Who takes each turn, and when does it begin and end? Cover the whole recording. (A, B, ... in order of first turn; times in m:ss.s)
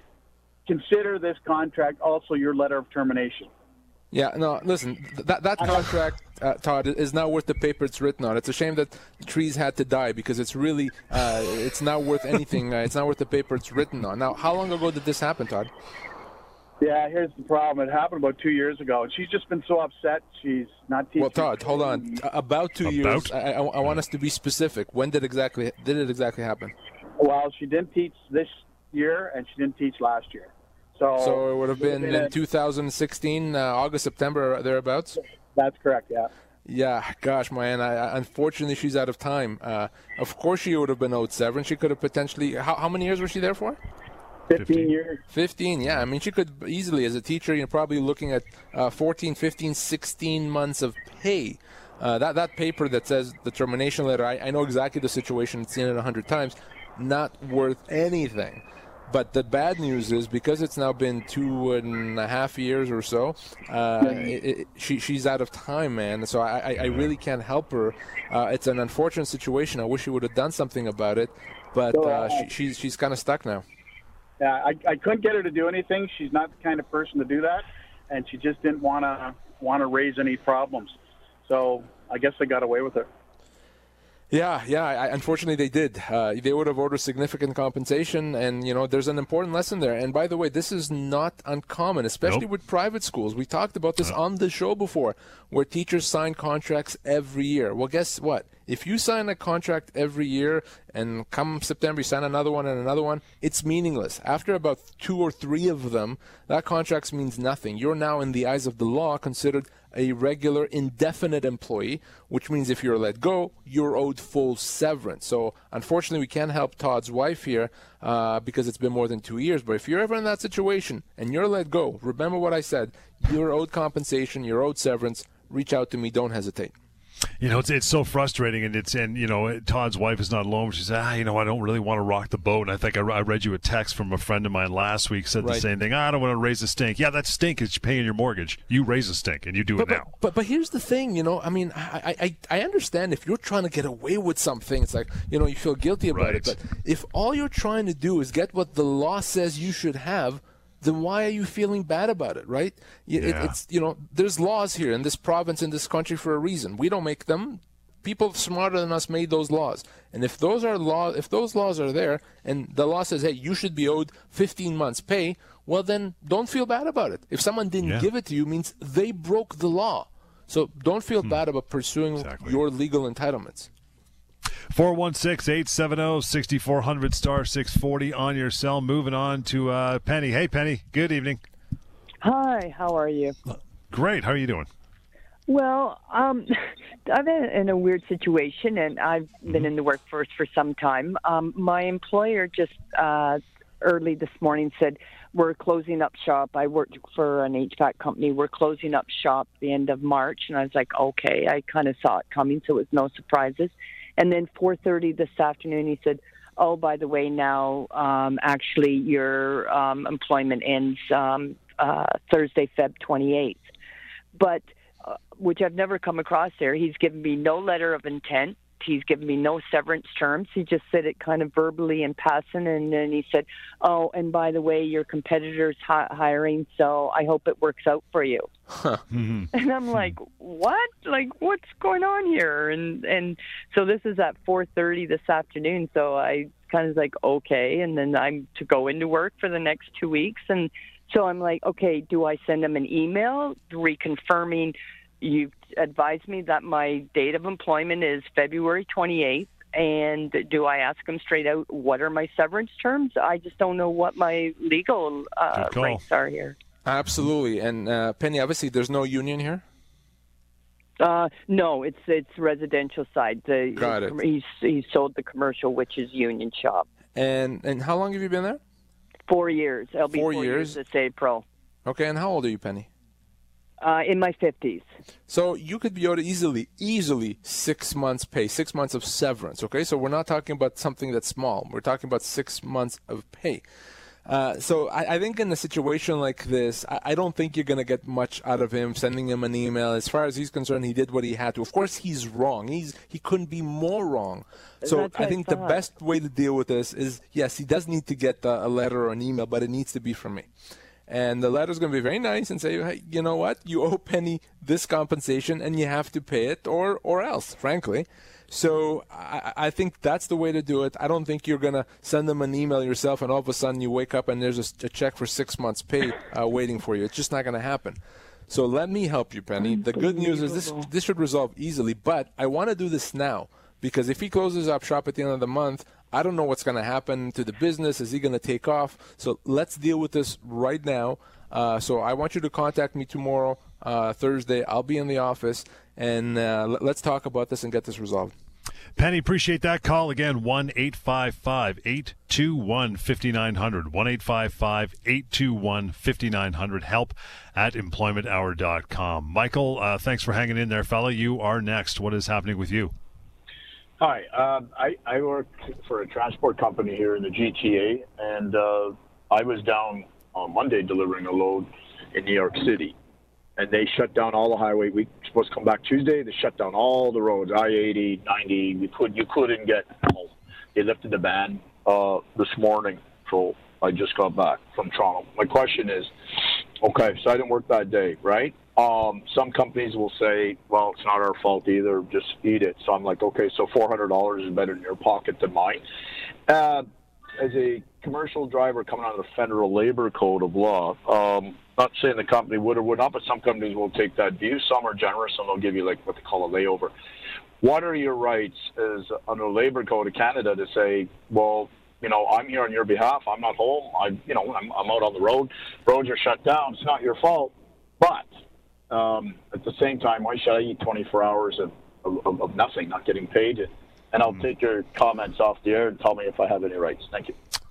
0:00.6-0:03.5 A
0:04.1-0:15.7 B
0:05.7-0:05.9 A
0:16.8-0:22.2 A
0:21.2-0:26.7 B
0:22.8-0:23.3 C
0:27.2-0:32.3 A
0:31.2-0:35.2 B
0:35.5-0:36.3 A
0:36.6-0:43.8 B
0:44.5-0:45.2 A
0:44.6-0:44.9 C
0:45.3-1:13.6 B
1:04.0-1:04.3 A
1:11.9-1:12.4 A
1:14.4-1:20.9 A
1:21.4-1:23.1 A
1:24.3-2:06.7 B
2:07.4-2:20.1 C
2:15.4-2:15.6 B
2:19.8-2:53.7 B
2:26.1-2:26.5 C
2:33.2-2:33.5 C
2:52.2-2:52.6 C
2:54.7-3:01.4 C
3:02.2-3:03.3 D
3:03.9-3:04.7 C
3:05.5-3:33.6 D
3:34.3-3:48.5 D
3:48.7-3:49.0 B
3:49.1-3:50.1 C
3:49.5-4:16.6 D
4:15.5-4:16.0 C
4:16.8-4:19.6 B
4:21.0-4:26.8 D
4:23.8-4:24.2 B
4:27.2-4:28.6 B
4:29.3-4:31.4 D
4:30.1-4:30.8 B
4:31.8-4:32.9 B
4:33.8-4:34.8 D
4:35.3-4:43.6 B
4:44.2-5:00.5 B
4:54.8-4:55.8 D
5:01.1-5:38.3 B
5:20.0-5:20.4 D
5:39.0-5:52.9 C
5:54.0-6:02.9 E
6:03.6-6:16.1 E
6:16.8-6:25.8 E
6:26.5-6:26.9 E
6:27.4-6:36.9 E
6:37.6-6:48.3 E
6:48.9-6:57.4 E